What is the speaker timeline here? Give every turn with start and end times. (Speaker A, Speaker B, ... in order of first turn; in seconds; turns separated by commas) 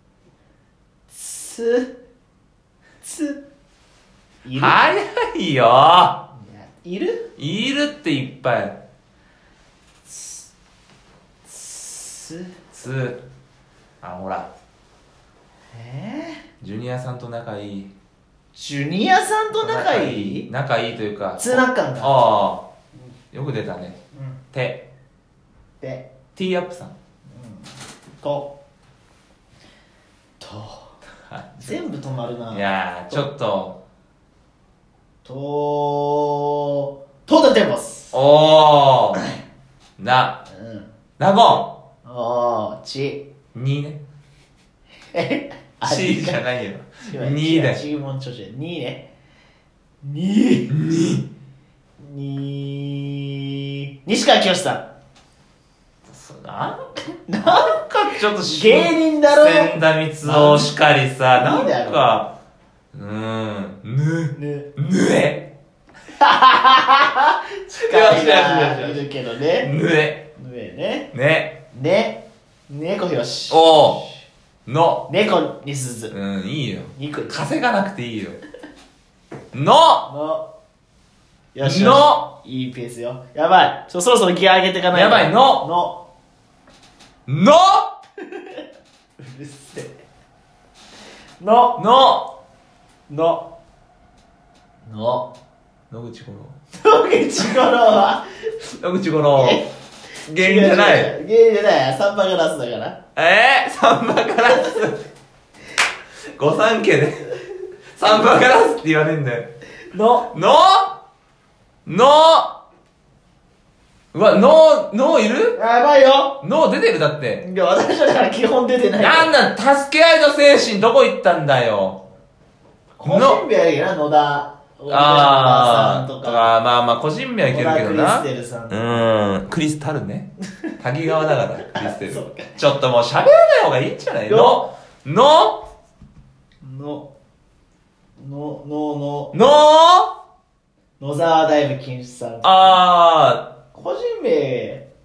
Speaker A: 1.1-1.9, Speaker A: 3.0-3.4, Speaker A: 4.4-4.8, Speaker B: 4.5-6.2, Speaker A: 6.3-7.3, Speaker B: 7.4-8.8, Speaker A: 10.1-10.4, Speaker A: 11.5-12.5, Speaker B: 12.7-13.2, Speaker B: 14.0-14.5, Speaker A: 15.7-16.4, Speaker B: 16.6-17.9, Speaker A: 18.5-20.5, Speaker B: 19.5-22.6, Speaker A: 21.4-22.1, Speaker B: 23.3-24.0, Speaker B: 24.5-24.9, Speaker A: 25.8-26.1, Speaker B: 26.4-26.9, Speaker A: 27.3-27.7, Speaker A: 28.2-28.5, Speaker A: 30.4-30.9, Speaker B: 31.3-31.8, Speaker A: 31.6-33.3, Speaker B: 32.5-33.8, Speaker A: 35.2-38.1, Speaker B: 38.1-39.2, Speaker B: 40.0-40.4, Speaker A: 40.5-40.9, Speaker B: 41.2-41.7, Speaker A: 42.0-43.2, Speaker B: 43.5-44.0, Speaker A: 45.1-46.4, Speaker B: 45.8-47.8, Speaker A: 47.0-49.1, Speaker A: 50.0-50.7, Speaker B: 50.7-51.3, Speaker A: 52.0-54.9, Speaker B: 56.0-62.3, Speaker A: 57.2-60.7, Speaker A: 61.4-62.1, Speaker B: 62.9-65.5, Speaker A: 64.3-64.7, Speaker A: 66.2-69.7, Speaker B: 67.8-69.0, Speaker B: 69.6-70.3, Speaker A: 70.4-71.1, Speaker B: 71.1-71.6, Speaker A: 71.7-74.1, Speaker B: 73.5-74.0, Speaker B: 74.7-75.1, Speaker A: 75.1-76.1, Speaker B: 76.1-78.4, Speaker A: 76.9-77.3, Speaker B: 79.5-80.1, Speaker A: 80.1-80.5, Speaker A: 81.5-86.0, Speaker B: 81.6-82.2, Speaker B: 84.9-85.7, Speaker B: 87.3-87.9, Speaker A: 88.2-88.6, Speaker A: 89.2-89.9, Speaker A: 91.4-91.8, Speaker B: 91.8-92.3, Speaker A: 93.1-93.5, Speaker A: 94.9-95.3, Speaker B: 95.9-96.5, Speaker A: 96.8-98.3, Speaker B: 98.8-99.6, Speaker A: 99.4-99.7, Speaker B: 100.3-101.1, Speaker A: 100.3-103.0, Speaker B: 103.2-105.0, Speaker B: 106.4-107.3, Speaker B: 108.0-109.5, Speaker A: 109.9-110.3, Speaker B: 110.3-111.0, Speaker B: 111.9-112.5, Speaker B: 114.1-115.6, Speaker A: 115.5-116.4, Speaker B: 116.4-117.4, Speaker A: 117.4-119.3, Speaker B: 119.0-122.0, Speaker A: 123.0-126.5, Speaker B: 123.0-123.4, Speaker B: 124.9-135.6, Speaker A: 127.5-129.0, Speaker A: 131.1-132.6, Speaker A: 134.3-134.6, Speaker A: 136.6-137.1, Speaker A: 138.2-139.3, Speaker B: 139.3-140.1, Speaker A: 141.0-142.8, Speaker B: 142.4-143.5, Speaker A: 143.7-144.8